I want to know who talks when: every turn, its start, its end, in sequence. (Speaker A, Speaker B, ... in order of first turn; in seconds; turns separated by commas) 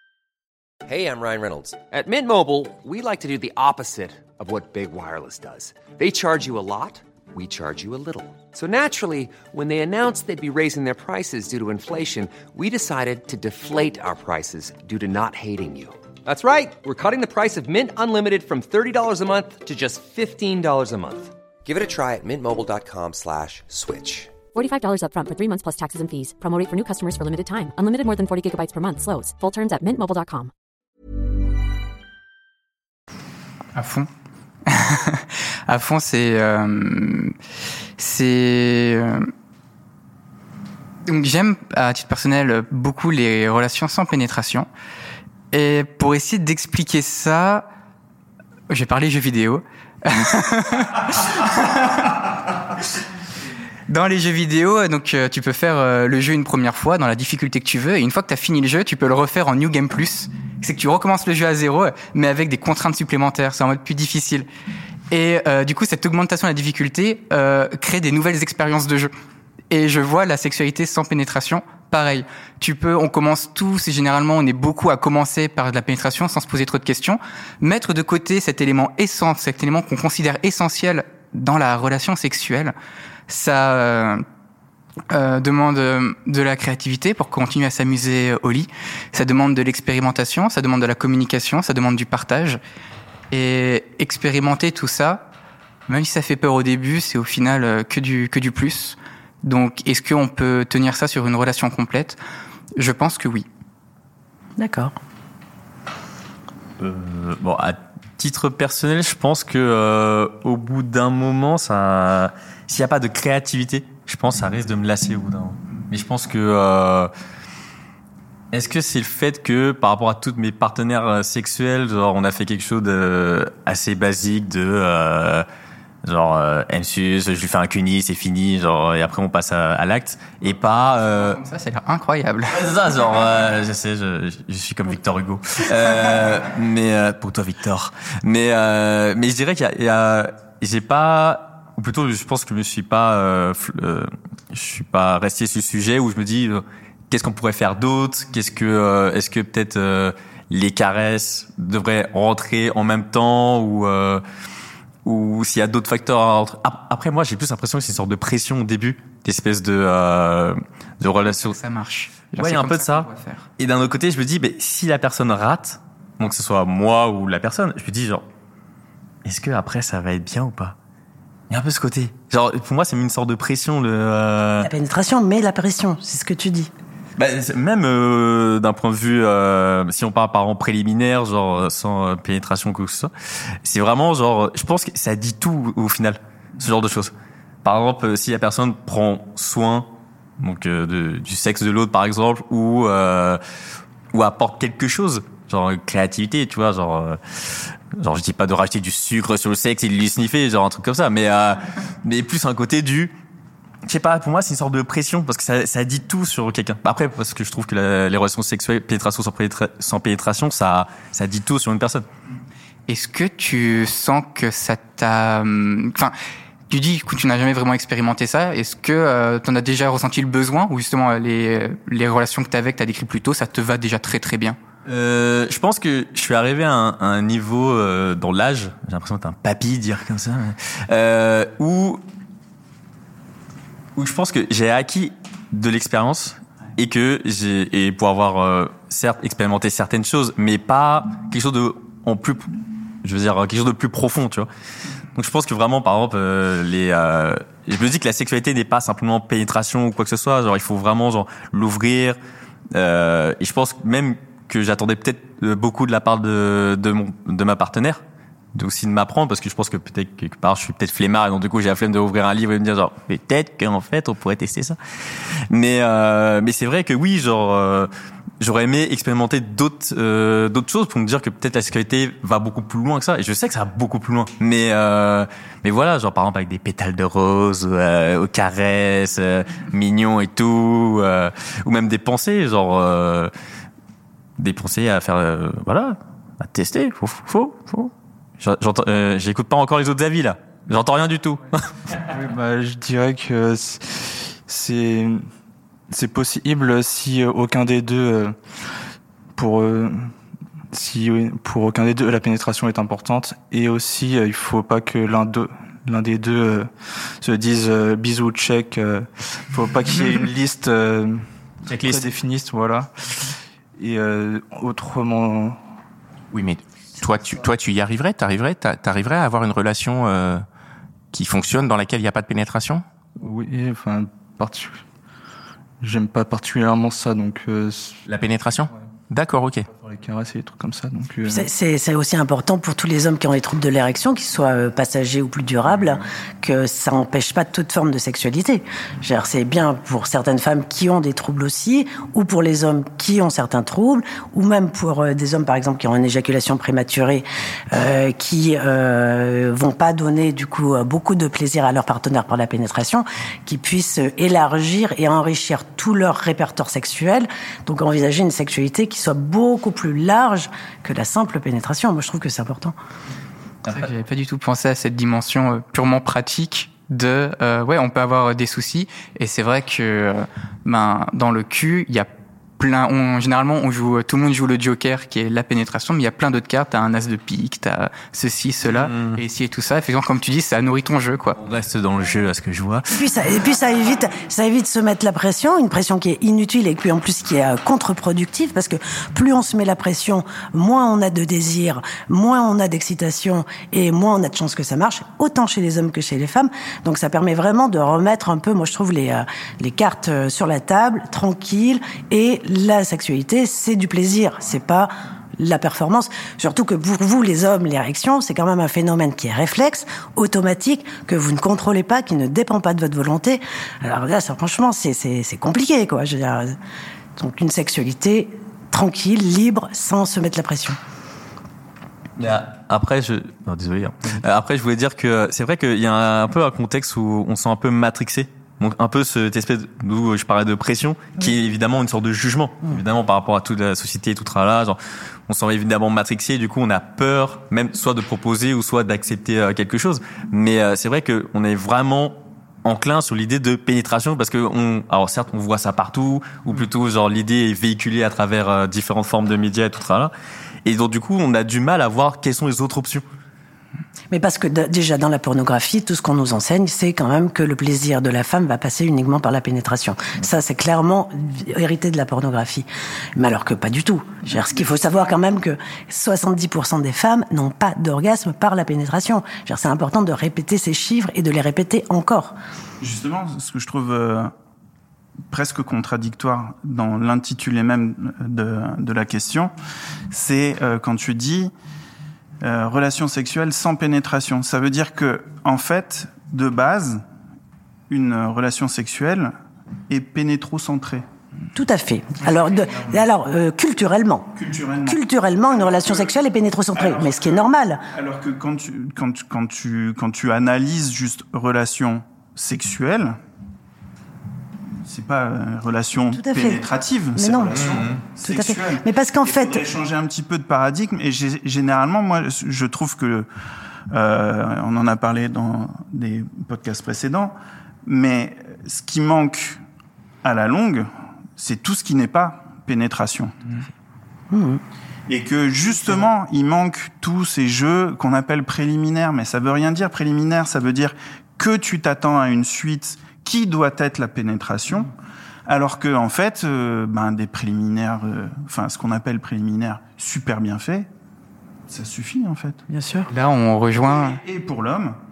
Speaker A: 0.9-24.4, Speaker B: 24.5-30.5, Speaker C: 33.8-34.1, Speaker C: 34.7-37.3, Speaker C: 38.0-39.3, Speaker C: 41.1-44.7, Speaker C: 45.5-47.7, Speaker C: 48.7-52.2, Speaker C: 53.9-64.5, Speaker C: 65.1-69.1, Speaker C: 69.7-82.7, Speaker C: 83.3-84.2, Speaker C: 85.1-92.6, Speaker C: 93.3-95.3, Speaker C: 95.9-102.2, Speaker C: 102.8-103.5, Speaker D: 104.6-104.9, Speaker E: 106.8-117.1, Speaker E: 118.5-125.5, Speaker E: 126.0-131.4, Speaker C: 131.2-132.5, Speaker E: 132.5-154.2, Speaker E: 155.1-161.6, Speaker C: 161.2-163.5, Speaker E: 162.4-168.2, Speaker E: 169.2-170.8, Speaker E: 171.5-174.7, Speaker D: 174.6-176.7, Speaker E: 177.2-183.1, Speaker E: 183.6-187.1, Speaker E: 187.6-193.4, Speaker E: 194.1-203.1, Speaker E: 203.9-212.1, Speaker C: 212.9-216.1, Speaker C: 216.7-224.6, Speaker E: 224.9-232.0, Speaker E: 234.0-242.5, Speaker E: 243.0-244.5, Speaker E: 245.2-252.2, Speaker E: 252.7-258.0, Speaker E: 258.6-264.8, Speaker E: 265.5-267.9, Speaker E: 268.4-283.3, Speaker E: 284.4-291.6, Speaker F: 292.1-295.2, Speaker F: 295.9-298.4, Speaker F: 299.4-300.1, Speaker F: 300.7-315.6, Speaker E: 311.7-312.1, Speaker G: 316.3-320.4, Speaker G: 321.1-322.8, Speaker F: 323.2-324.8, Speaker F: 325.8-328.0, Speaker G: 328.1-329.7, Speaker F: 329.7-331.5, Speaker D: 331.3-362.8, Speaker C: 363.7-381.4, Speaker E: 378.7-379.2, Speaker E: 381.4-382.9, Speaker D: 382.9-416.5, Speaker D: 417.2-420.8, Speaker E: 422.2-450.1, Speaker E: 450.6-453.0, Speaker D: 454.1-472.4, Speaker H: 464.4-465.1, Speaker H: 472.8-474.3, Speaker H: 475.3-479.5, Speaker H: 480.1-481.5, Speaker H: 482.4-487.0, Speaker H: 487.9-489.3, Speaker H: 489.9-491.1, Speaker D: 491.6-497.8, Speaker H: 492.2-493.0, Speaker H: 494.4-496.2, Speaker H: 496.7-503.2, Speaker H: 504.9-513.3, Speaker D: 506.1-506.6, Speaker D: 507.1-507.7, Speaker E: 507.6-508.0, Speaker D: 508.2-509.6, Speaker H: 513.9-519.6, Speaker H: 520.2-523.6, Speaker D: 524.3-524.6, Speaker H: 525.1-534.9, Speaker H: 535.5-540.9, Speaker H: 541.7-542.6, Speaker D: 542.7-543.1, Speaker C: 543.1-544.2, Speaker H: 543.8-545.0